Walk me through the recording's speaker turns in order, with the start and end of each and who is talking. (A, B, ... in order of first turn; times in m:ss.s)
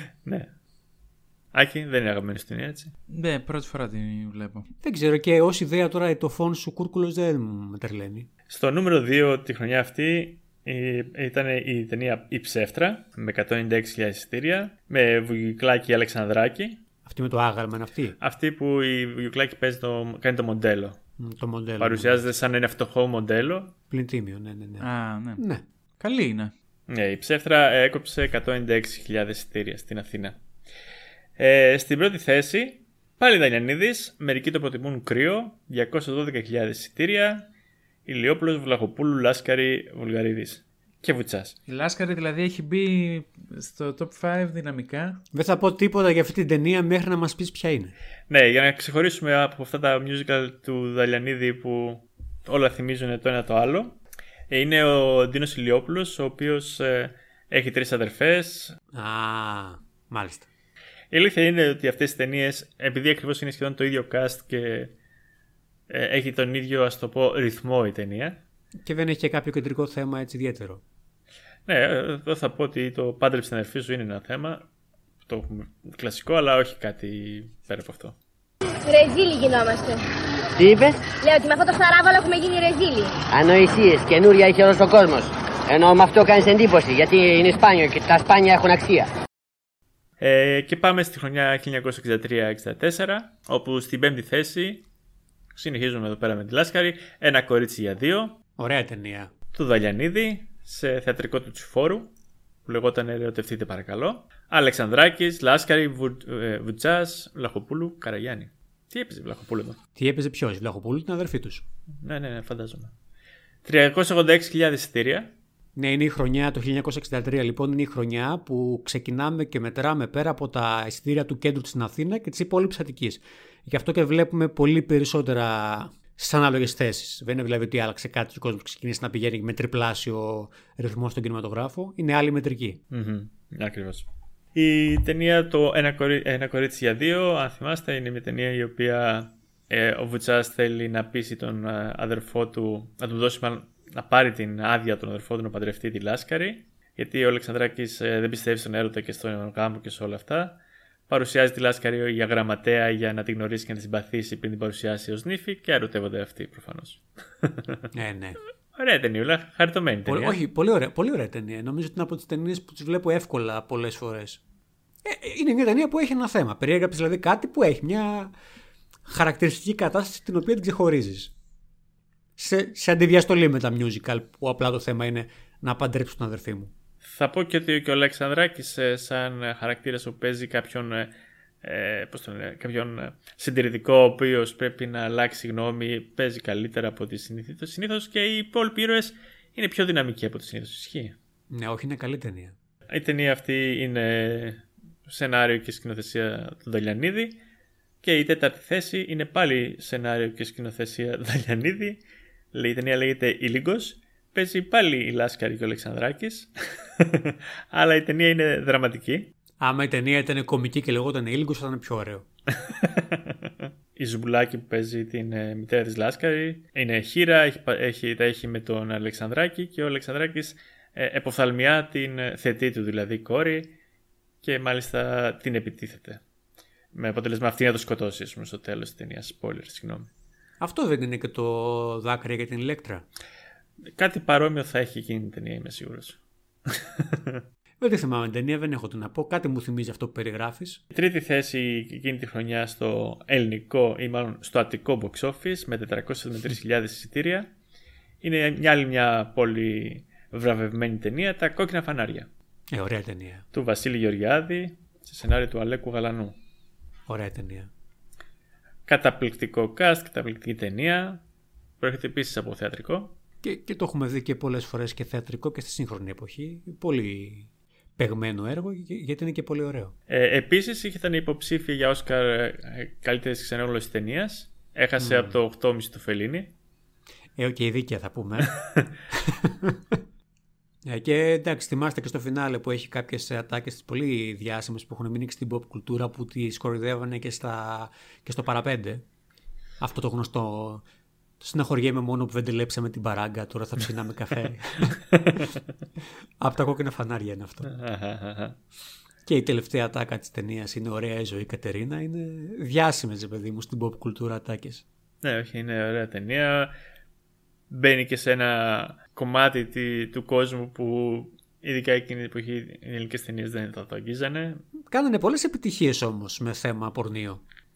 0:00.2-0:00.5 A
0:01.5-0:02.9 A
0:03.1-0:04.7 B
0:04.8-0:08.3 C
0:08.5-0:16.8 A
0:17.0-0:18.2 C
0:18.2-0:21.0 A
0:21.2-0:22.3 C
0:21.8-0:23.7 A
0:23.9-0:25.6 C
0:24.8-0:25.4 B
0:26.0-0:26.5 B
0:26.9-0:30.4 A
0:31.4-0:37.5 A
0:38.0-0:41.6 A
0:41.7-0:45.2 B
0:45.3-0:47.9 C
0:48.3-0:54.0 A
0:54.5-0:58.8 A
0:58.9-1:00.5 C
1:01.1-1:04.9 A
1:05.9-1:08.4 A
1:08.8-1:10.8 C
1:11.6-1:14.6 A
1:15.2-1:18.2 A
1:18.8-1:20.0 D
1:20.6-1:21.0 E
1:21.2-1:23.1 D
1:23.3-1:29.1 E
1:30.2-1:34.8 A
1:35.5-1:38.4 A
1:38.6-1:39.3 C
1:39.5-1:42.1 A
1:42.6-1:49.8 A
1:50.0-1:51.6 C
1:52.0-1:52.9 A
1:53.6-1:55.3 A
1:55.7-2:12.8 C
2:12.9-2:30.6 A
2:31.1-2:37.8 A
2:37.9-2:38.4 C
2:38.7-2:40.4 A
2:40.0-2:44.4 C
2:45.0-2:48.3 C
2:49.0-2:51.3 C
2:52.4-2:56.7 C
2:57.0-3:01.1 A
3:01.6-3:11.1 A
3:11.5-3:12.5 C
3:12.9-3:17.4 A
3:18.0-3:22.0 A
3:22.5-3:29.3 A
3:29.6-3:32.2 C
3:32.6-3:43.7 A
3:44.4-3:46.2 A
3:46.9-3:50.1 A
3:50.6-3:53.0 C
3:54.0-3:57.4 A
3:57.8-4:00.8 C
4:00.9-4:07.5 A
4:08.2-4:12.3 A
4:12.7-4:13.4 C
4:13.5-4:16.4 A
4:17.1-4:17.7 C
4:18.9-4:21.2 A
4:21.8-4:23.2 A
4:23.4-4:29.9 C
4:30.1-4:36.5 A
4:35.0-4:35.4 C
4:37.4-4:38.6 C
4:38.4-4:38.9 A
4:39.1-4:40.0 C
4:40.8-4:49.0 C
4:49.8-4:50.8 C
4:51.4-4:55.4 C
4:55.2-4:55.5 A
4:56.4-4:57.7 C
4:57.6-4:58.6 A
4:59.2-5:04.8 C
5:05.2-5:06.7 A
5:07.7-5:14.6 A
5:14.8-5:17.4 C